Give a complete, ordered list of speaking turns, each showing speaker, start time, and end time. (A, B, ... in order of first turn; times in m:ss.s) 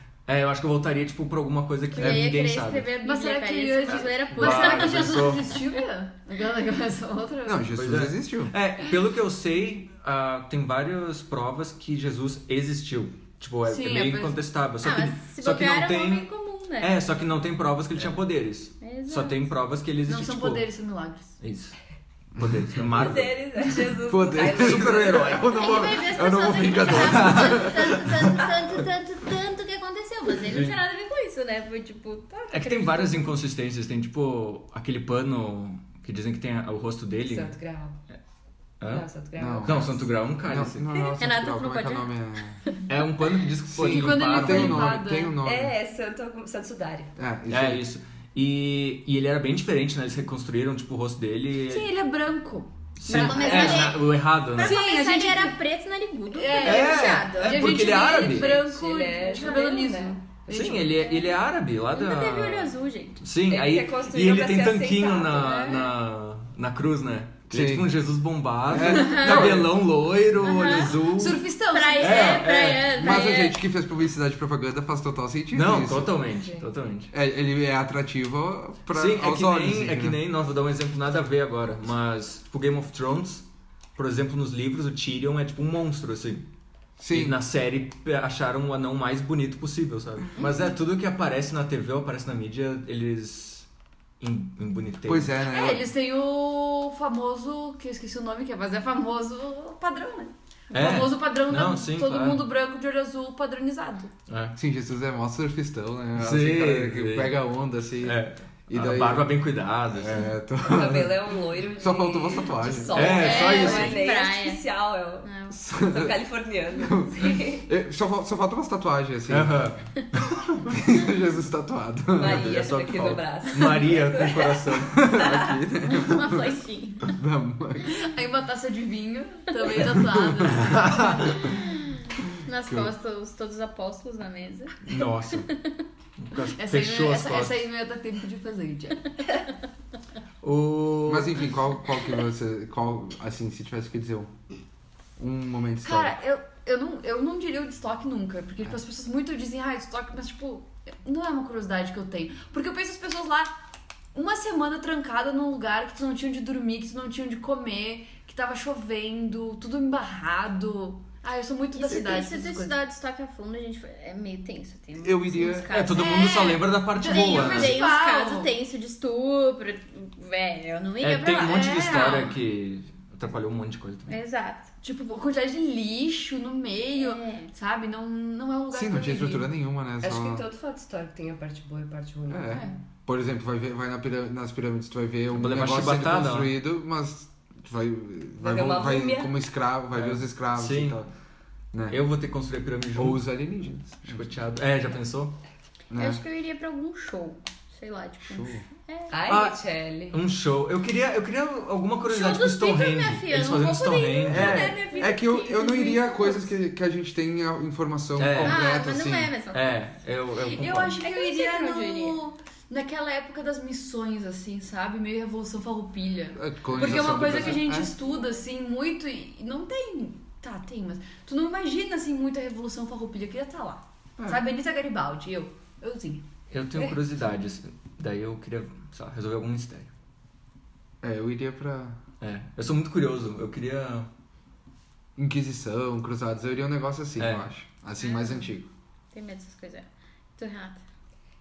0:00.3-0:02.9 A
0:01.9-0:05.6 B
0:02.0-0:02.3 C
0:03.0-0:07.7 D
0:03.9-0:05.6 A
0:07.4-0:08.5 C
0:07.8-0:20.7 A
0:13.6-0:14.4 D
0:14.8-0:17.0 B
0:18.8-0:19.4 B
0:20.1-0:21.3 D
0:21.4-0:21.8 A
0:22.4-0:23.2 C
0:22.4-0:23.4 A
0:22.9-0:25.7 E
0:24.0-0:28.5 C
0:24.4-0:25.5 A
0:25.5-0:33.4 B
0:26.8-0:28.0 A
0:30.4-0:30.8 A
0:32.5-0:37.6 A
0:37.3-0:38.0 E
0:38.8-0:39.1 A
0:38.9-0:40.0 E
0:39.4-0:42.6 C
0:39.6-0:41.0 A
0:40.9-0:42.8 B
0:42.9-0:44.9 A
0:43.7-0:45.8 C
0:43.8-0:45.4 D
0:45.4-0:47.1 E
0:47.2-0:47.8 C
0:47.5-0:51.9 A
0:51.7-0:53.9 D
0:53.0-0:54.8 A
0:53.1-0:57.7 B
0:54.6-0:55.6 D
0:56.3-1:01.2 D
0:56.6-0:58.5 A
0:57.6-1:00.2 E
1:00.5-1:11.4 A
1:01.9-1:03.2 B
1:03.5-1:05.8 E
1:05.4-1:05.9 B
1:07.5-1:08.0 C
1:08.7-1:09.8 C
1:08.8-1:09.6 B
1:10.4-1:11.0 B
1:11.2-1:12.5 D
1:11.7-1:13.6 B
1:12.0-1:13.3 A
1:13.0-1:16.2 C
1:15.5-1:17.1 A
1:17.1-1:20.2 C
1:18.9-1:23.4 A
1:24.0-1:26.4 A
1:27.0-1:27.4 C
1:27.1-1:33.7 A
1:34.2-1:35.4 A
1:35.1-1:35.8 C
1:35.4-1:44.1 D
1:40.7-1:42.4 A
1:44.3-1:44.6 A
1:44.6-1:53.2 C
1:46.2-1:47.4 A
1:48.0-1:50.4 A
1:50.6-1:57.7 E
1:52.9-1:54.0 A
1:53.0-1:54.6 B
1:53.2-1:54.0 D
1:55.2-1:55.6 B
1:55.5-1:56.2 C
1:56.8-1:59.8 C
1:59.3-1:59.8 A
2:00.7-2:02.5 C
2:02.1-2:05.6 E
2:02.2-2:05.0 A
2:04.2-2:06.5 C
2:05.9-2:07.2 B
2:07.1-2:07.9 C
2:07.9-2:11.2 D
2:10.2-2:10.9 C
2:10.7-2:11.2 A
2:11.5-2:11.9 B
2:12.5-2:15.7 B
2:12.6-2:12.9 C
2:14.8-2:15.5 A
2:16.2-2:17.7 A
2:16.6-2:19.0 D
2:20.4-2:21.5 A
2:21.1-2:24.3 C
2:25.2-2:26.2 C
2:25.8-2:33.5 D
2:34.2-2:42.8 D
2:41.7-2:52.4 B
2:45.0-2:45.7 C
2:45.7-2:47.8 A
2:47.0-2:48.5 D
2:51.0-2:54.2 A
2:51.3-2:52.3 D
2:54.1-2:54.7 B
2:54.8-2:59.5 D
2:57.0-2:57.5 B
2:58.7-3:00.5 C
3:00.0-3:02.6 E
3:02.3-3:11.1 C
3:02.5-3:02.8 D
3:05.3-3:06.5 A
3:08.4-3:09.3 E
3:09.9-3:11.1 A
3:11.7-3:12.0 C
3:11.9-3:13.3 A
3:13.0-3:14.3 C
3:14.0-3:15.4 A
3:15.9-3:16.2 C
3:15.9-3:19.2 B
3:18.2-3:18.6 C
3:19.1-3:20.2 E
3:19.3-3:24.8 A
3:22.1-3:26.4 B
3:24.3-3:29.4 C
3:28.2-3:28.7 A
3:28.4-3:29.8 B
3:29.5-3:31.0 A
3:30.5-3:46.2 D
3:31.0-3:32.2 B
3:36.4-3:37.9 C
3:36.8-3:37.2 A
3:38.0-3:38.4 B
3:46.5-3:49.9 A
3:51.0-3:52.0 C
3:52.2-3:54.1 A
3:55.2-3:58.7 C
3:57.2-3:57.5 A
3:58.1-3:58.3 B
3:59.1-4:00.8 B